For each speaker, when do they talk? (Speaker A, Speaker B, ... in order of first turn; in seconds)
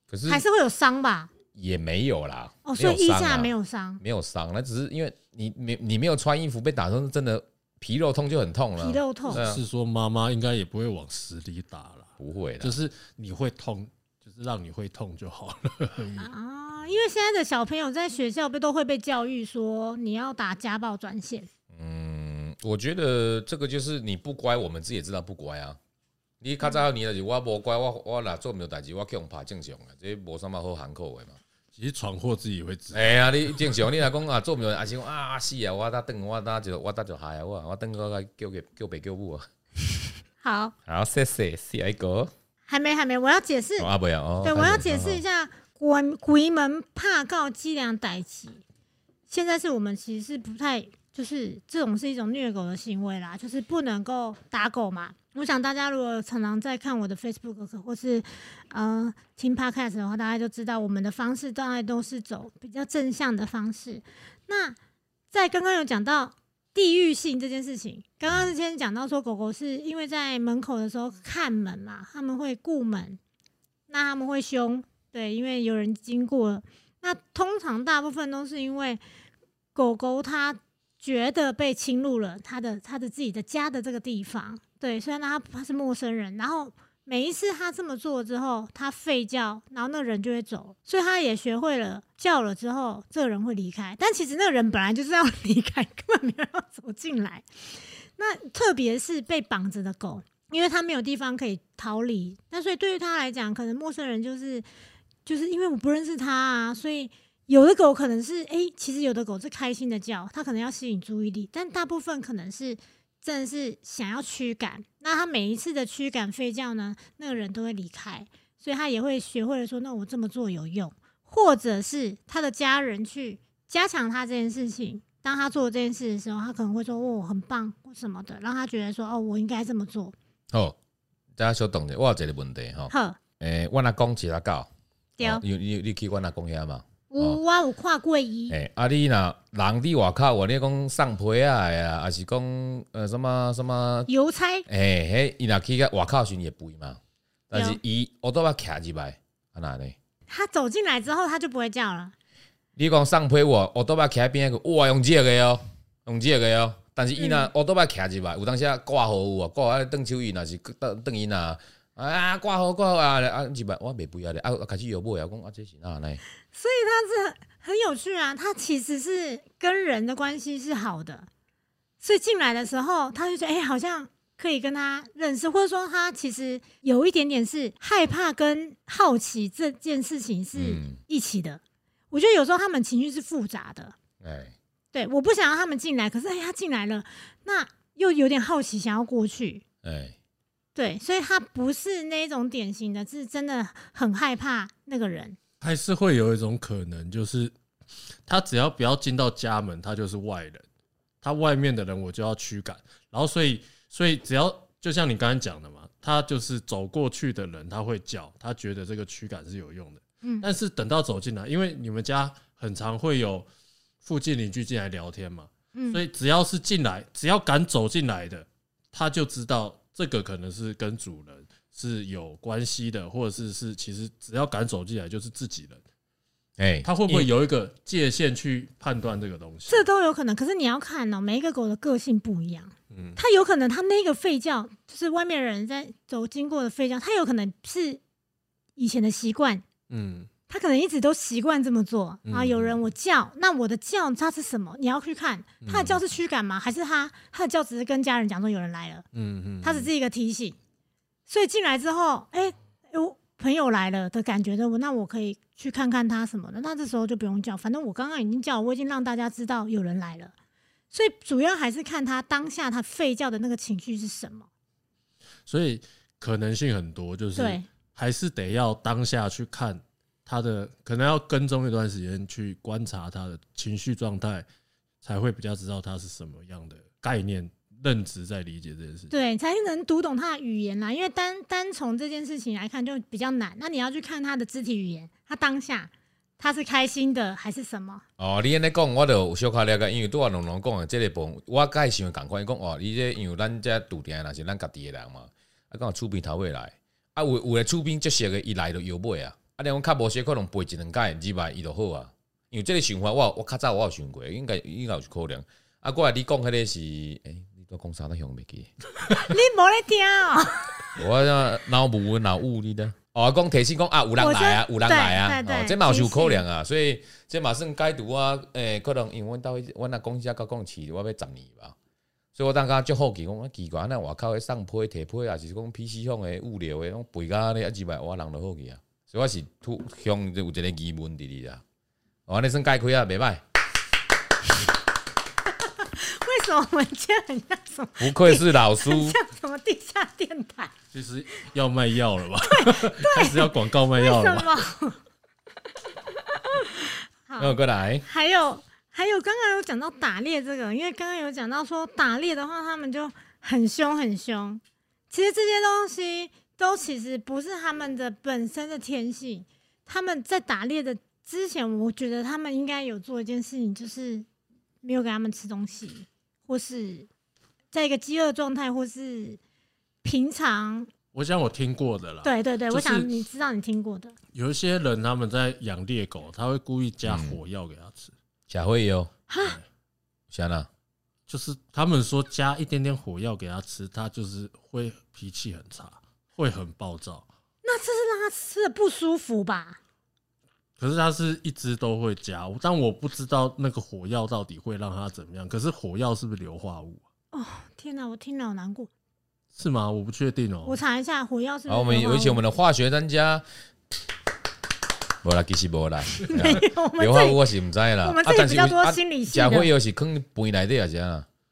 Speaker A: 0.1-0.4, 1.5-9.6, 12.2-12.7, 21.7-25.8, 26.4-31.4, 32.9-39.5, 40.9-42.3, 43.8-45.2, 131.4-134.7, 135.2-137.4, 138.5-144.1, 144.7-147.0, 147.5-149.9, 152.8-166.2, 180.5-181.0, 184.2-184.5, 189.8-190.2, 226.6-227.3, 288.2-308.7, 311.0-321.8, 322.3-331.6, 332.3-333.4, 338.0-339.2, 347.4-348.0, 377.0-377.4, 378.5-379.1, 380.3-380.7, 401.7-403.4, 405.2-411.3
Speaker B: 0.3-1.3, 2.6-4.0, 8.8-9.4, 16.2-21.5, 40.4-40.7, 42.7-43.9, 44.4-48.6, 49.3-64.8, 65.3-73.2, 73.9-79.0, 79.7-97.5, 98.2-104.6, 105.2-130.1, 132.9-133.2, 135.2-135.4, 137.1-138.6, 144.1-144.7, 147.5-147.8, 150.3-152.1, 157.2-157.5, 166.5-171.3, 172.0-183.9, 184.9-189.6, 190.7-195.4, 215.7-216.0, 229.7-238.0, 238.8-239.6, 240.5-249.0, 249.6-250.6, 251.3-260.3, 260.9-264.5, 267.4-267.6, 279.1-288.0, 309.1-310.9, 314.2-316.4, 335.6-340.7, 342.5-345.0, 346.4-364.2, 364.8-367.1, 367.7-369.4, 370.0-370.9, 372.2-374.1, 379.3-379.6, 387.6-389.8, 397.3-398.9, 400.6-402.4, 406.2-407.4, 408.0-409.7
Speaker C: 9.3-16.3, 31.7-33.1, 195.6-197.5, 198.3-200.6, 201.2-213.5, 214.0-225.8, 226.8-229.9, 232.9-233.2, 239.9-240.3, 242.2-242.8, 245.6-246.0, 249.1-249.9, 265.5-274.4, 275.0-279.1, 340.9-344.5, 371.1-373.1, 374.3-378.1, 379.4-379.6, 381.3-387.2, 390.8-397.0, 399.5-400.8